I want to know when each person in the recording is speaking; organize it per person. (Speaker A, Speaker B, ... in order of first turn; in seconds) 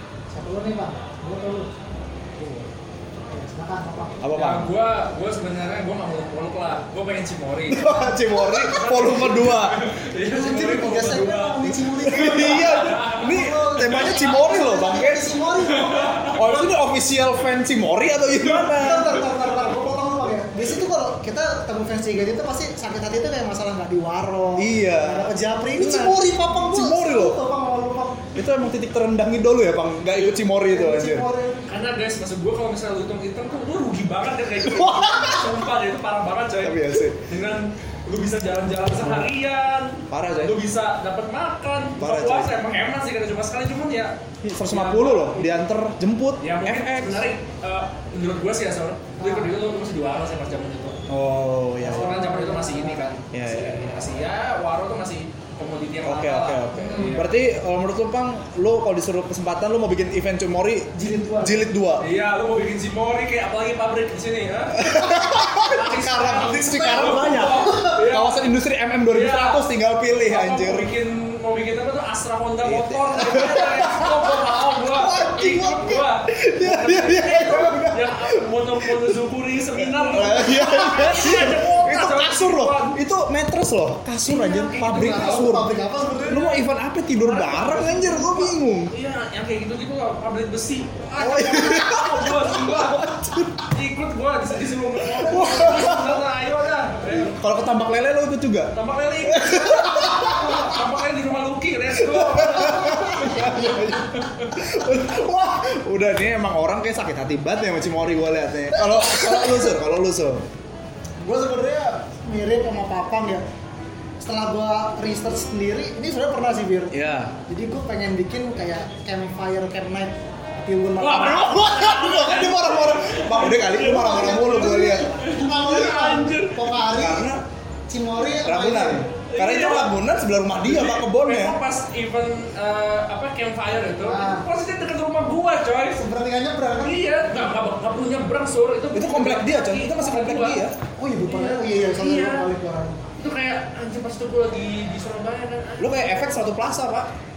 Speaker A: 0.3-1.7, 3.3-4.2, 10.3-16.3, 18.4-28.3, 30.3-31.6, 49.2-49.5, 51.9-53.0, 56.8-57.1, 60.9-61.6, 66.0-68.0, 84.8-86.5, 100.1-100.4, 111.2-113.4, 114.2-116.9, 117.5-121.7, 123.5-127.3, 127.9-129.1, 134.0-134.4, 136.0-137.0, 141.0-142.9
Speaker B: 4.2-4.7, 7.7-9.8, 12.0-15.4, 16.3-19.3, 24.6-27.4, 28.3-31.2, 34.6-35.5, 36.6-37.2, 39.0-39.3, 40.1-40.5, 42.0-42.5, 44.4-47.2, 51.1-52.2, 53.3-53.8, 56.0-62.0, 64.7-70.9, 72.6-79.1, 79.8-85.7, 86.2-88.9, 91.2-93.7, 95.1-96.2, 97.1-100.8, 101.9-110.4, 116.9-117.3, 121.1-125.2, 127.0-127.4, 128.4-131.6, 138.9-140.8, 145.8-147.1
Speaker C: 4.3-7.9, 8.5-13.4, 15.6-16.7, 31.7-45.5, 46.4-51.0, 51.8-57.3, 62.0-68.4, 69.1-69.6, 70.2-83.0, 84.2-85.6, 87.2-93.1, 93.7-97.4, 98.7-104.6, 121.0-126.7, 129.2-129.9, 130.6-136.0, 136.8-140.6, 141.2-142.5, 143.2-146.1